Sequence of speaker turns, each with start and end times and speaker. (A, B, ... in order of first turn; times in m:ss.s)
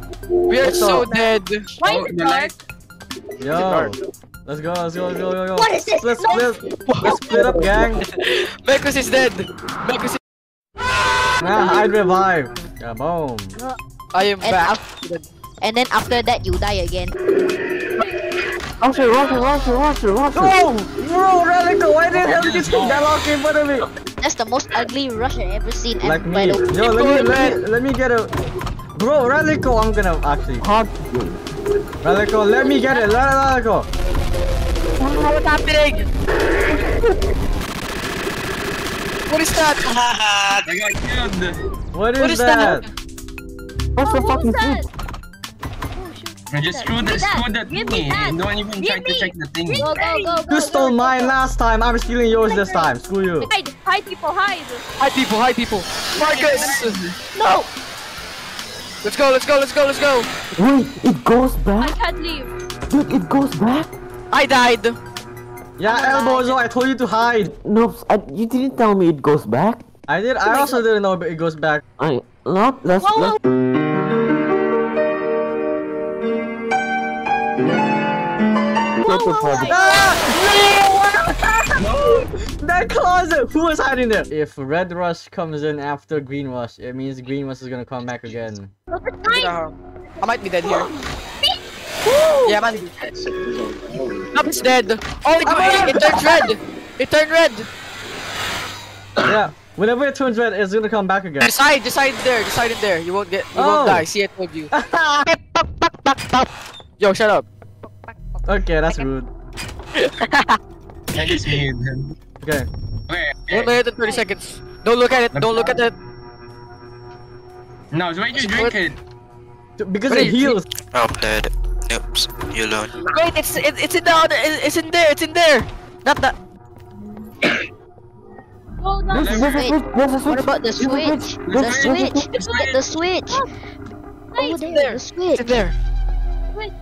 0:00.5-0:01.7 A
0:01.8-0:02.5 B
0:01.8-0:02.6 C
0:03.4-0:08.0 D
0:03.5-0:03.9 A
0:05.6-0:06.5 B
0:06.9-0:07.2 A
0:07.1-0:07.5 B
0:08.0-0:10.2 A
0:11.4-0:13.6 D
0:14.1-0:15.3 A
0:14.4-0:14.8 E
0:15.6-0:17.2 E
0:18.8-0:20.6 F
0:18.8-0:19.9 B
0:20.3-0:23.9 D
0:22.1-0:23.1 C
0:24.2-0:26.6 E
0:26.0-0:28.3 D
0:26.8-0:27.6 A
0:29.0-0:30.7 D
0:30.6-0:31.4 F
0:32.0-0:33.9 D
0:32.5-0:33.2 B
0:35.0-0:36.1 A
0:39.3-0:39.9 A
0:39.9-0:40.4 F
0:40.6-0:41.6 C
0:41.9-0:42.9 D
0:42.2-0:42.9 A
0:44.0-0:44.9 B
0:44.0-0:44.8 F
0:46.0-0:50.6 B
0:46.5-0:49.9 C
0:49.7-0:51.4 E
0:50.5-0:53.5 D
0:52.5-0:52.9 B
0:53.5-0:54.8 B
0:55.0-0:57.0 A
0:56.2-0:57.2 C
0:57.4-0:57.6 E
0:59.0-1:00.3 A
1:00.6-1:02.0 F
1:01.8-1:02.5 B
1:02.9-1:03.9 F
1:04.3-1:05.0 A
1:05.8-1:07.5 D
1:05.9-1:06.6 B
1:07.6-1:09.8 F
1:10.1-1:11.8 D
1:12.0-1:13.4 F
1:13.0-1:13.4 B
1:19.0-1:20.6 B
1:19.0-1:19.8 F
1:19.6-1:28.7 D
1:21.8-1:22.3 C
1:29.0-1:29.4 E
1:29.2-1:29.5 B
1:29.3-1:30.9 A
1:32.4-1:33.0 A
1:34.3-1:37.7 A
1:35.4-1:36.4 D
1:39.2-1:41.5 D
1:41.4-1:44.7 A
1:43.5-1:44.1 D
1:44.7-1:45.3 D
1:45.3-1:46.4 A
1:47.0-1:47.4 A
1:48.4-1:49.3 D
1:50.0-1:50.6 A
1:51.1-1:52.1 C
1:52.4-1:52.7 D
1:53.1-1:53.8 C
1:53.5-1:55.9 A
1:55.3-1:55.8 C
1:57.9-1:59.0 C
1:58.3-1:58.7 A
1:59.8-2:00.6 D
2:00.1-2:00.6 A
2:00.9-2:02.9 G
2:03.0-2:06.3 A
2:08.8-2:09.6 B
2:09.1-2:12.3 F
2:09.1-2:09.7 C
2:09.3-2:13.4 E
2:11.4-2:12.8 C
2:14.3-2:14.6 B
2:14.4-2:15.6 E
2:14.6-2:15.7 A